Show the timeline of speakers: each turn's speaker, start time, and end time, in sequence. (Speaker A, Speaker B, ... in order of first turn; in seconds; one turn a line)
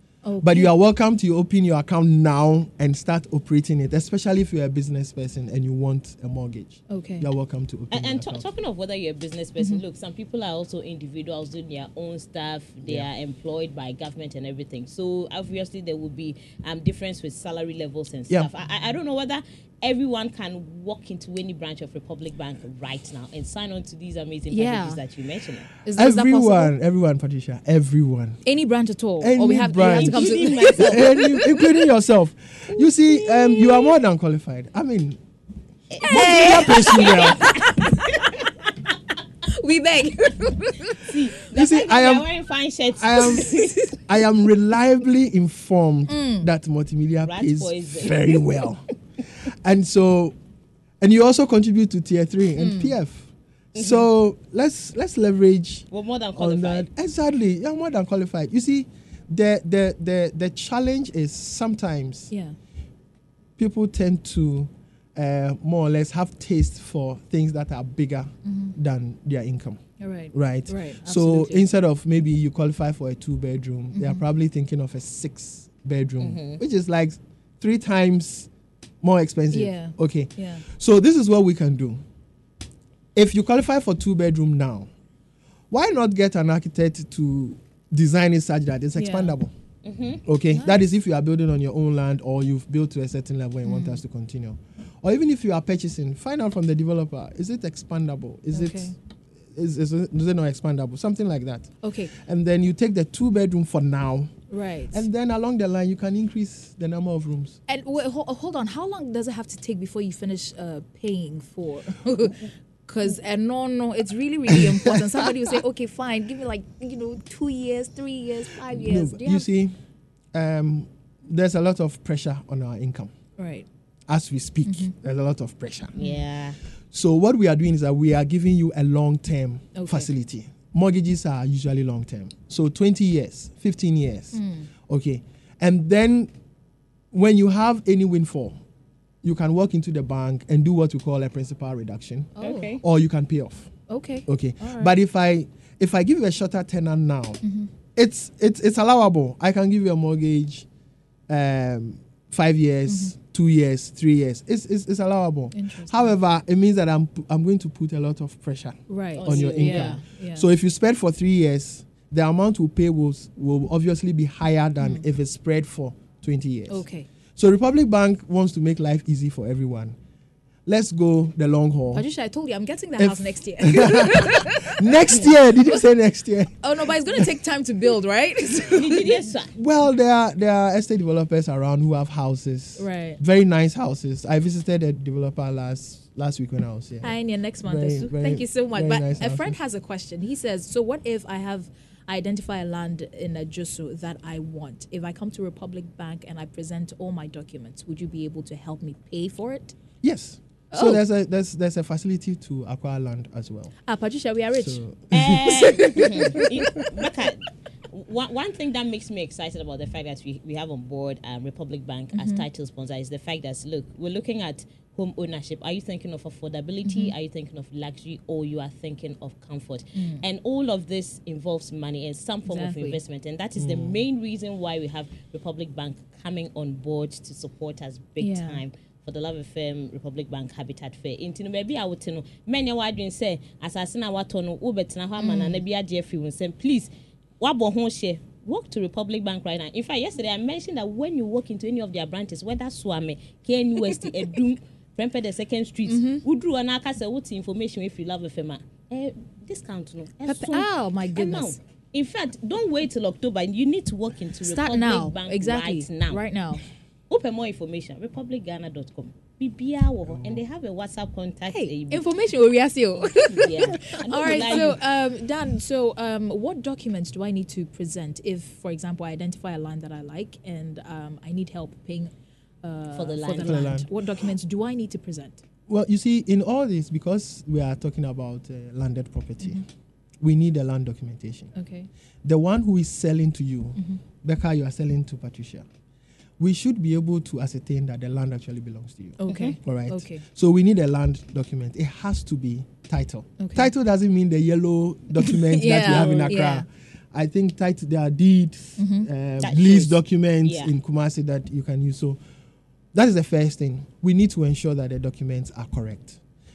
Speaker A: 0.2-0.7
Speaker B: 0.4-8.5
Speaker A: 6.9-7.3
Speaker C: 7.9-25.7
Speaker A: 24.5-25.0
Speaker A: 25.9-26.7
Speaker B: 26.0-28.4
Speaker A: 28.5-31.5
Speaker B: 29.2-35.2
Speaker C: 29.8-31.2
Speaker C: 35.9-37.7
Speaker B: 36.0-37.5
Speaker A: 36.0-38.5
Speaker A: 39.5-41.1
Speaker C: 41.0-44.0
Speaker B: 41.5-42.3
Speaker B: 43.0-48.8
Speaker A: 46.1-46.5
Speaker C: 47.2-48.4
Speaker B: 49.5-50.4
Speaker B: 51.0-62.3
Speaker A: 52.6-52.9
Speaker C: 53.8-54.0
Speaker C: 55.9-56.9
Speaker A: 62.3-62.6
Speaker B: 63.6-69.8
Speaker A: 68.5-68.8
Speaker A: 70.0-71.7
Speaker B: 70.3-78.5
Speaker A: 74.0-74.2
Speaker C: 76.2-76.6
Speaker B: 79.0-82.0
Speaker A: 79.5-80.6
Speaker B: 83.2-84.9
Speaker B: 85.7-89.5
Speaker A: 89.0-89.3
Speaker C: 89.8-90.2
Speaker B: 90.2-99.0
Speaker A: 93.7-94.0
Speaker A: 98.5-99.0
Speaker B: 99.5-104.3
Speaker A: 101.8-102.1
Speaker A: 104.5-105.0
Speaker B: 104.9-107.6
Speaker A: 107.7-119.5
Speaker B: 114.5-115.2
Speaker B: 118.7-119.8
Speaker B: 120.3-123.2
Speaker A: 123.4-123.7
Speaker B: 124.1-126.0
Speaker A: 124.7-124.9
Speaker A: 126.0-126.2
Speaker C: 126.0-126.6
Speaker B: 126.9-136.3
Speaker A: 129.8-130.1
Speaker A: 134.3-134.7
Speaker B: 137.1-138.6
Speaker B: 139.2-143.7
Speaker A: 142.4-142.8
Speaker C: 142.4-142.8
Speaker A: 143.9-144.9
Speaker B: 144.3-147.4
Speaker A: 147.4-147.7
Speaker B: 147.9-150.7
Speaker B: 151.3-166.8
Speaker A: 152.9-153.1
Speaker A: 155.5-156.1
Speaker A: 158.9-160.5
Speaker C: 159.2-160.0
Speaker A: 166.7-167.1
Speaker B: 167.4-170.0
Speaker B: 170.7-172.1
Speaker A: 171.9-175.3
Speaker B: 173.0-177.3
Speaker A: 176.6-179.2
Speaker C: 178.7-179.6
Speaker B: 179.6-189.6
Speaker A: 182.8-183.2
Speaker A: 187.0-199.8
Speaker B: 200.0-203.7
Speaker A: 200.7-201.0
Speaker A: 203.9-206.8
Speaker B: 204.6-206.1
Speaker C: 205.1-256.2
Speaker A: 212.1-212.4
Speaker A: 216.8-217.1
Speaker A: 219.9-220.2
Speaker A: 222.5-223.0
Speaker B: 223.6-224.0
Speaker A: 228.2-228.6
Speaker A: 235.2-235.6
Speaker A: 245.9-246.2
Speaker A: 250.2-251.6
Speaker A: 254.4-256.6
Speaker C: 257.1-262.1
Speaker B: 260.1-260.4
Speaker A: 261.5-272.1
Speaker C: 263.0-264.8
Speaker A: 272.6-275.4
Speaker C: 272.9-273.7
Speaker B: 273.4-273.9
Speaker B: 275.7-279.6
Speaker B: 280.2-281.5
Speaker A: 281.6-281.9
Speaker B: 282.2-285.7
Speaker B: 286.4-302.2
Speaker A: 289.2-290.2
Speaker C: 289.3-289.6
Speaker A: 293.4-293.7
Speaker A: 295.2-296.7
Speaker A: 298.8-299.1
Speaker C: 299.4-300.7
Speaker B: 302.9-306.2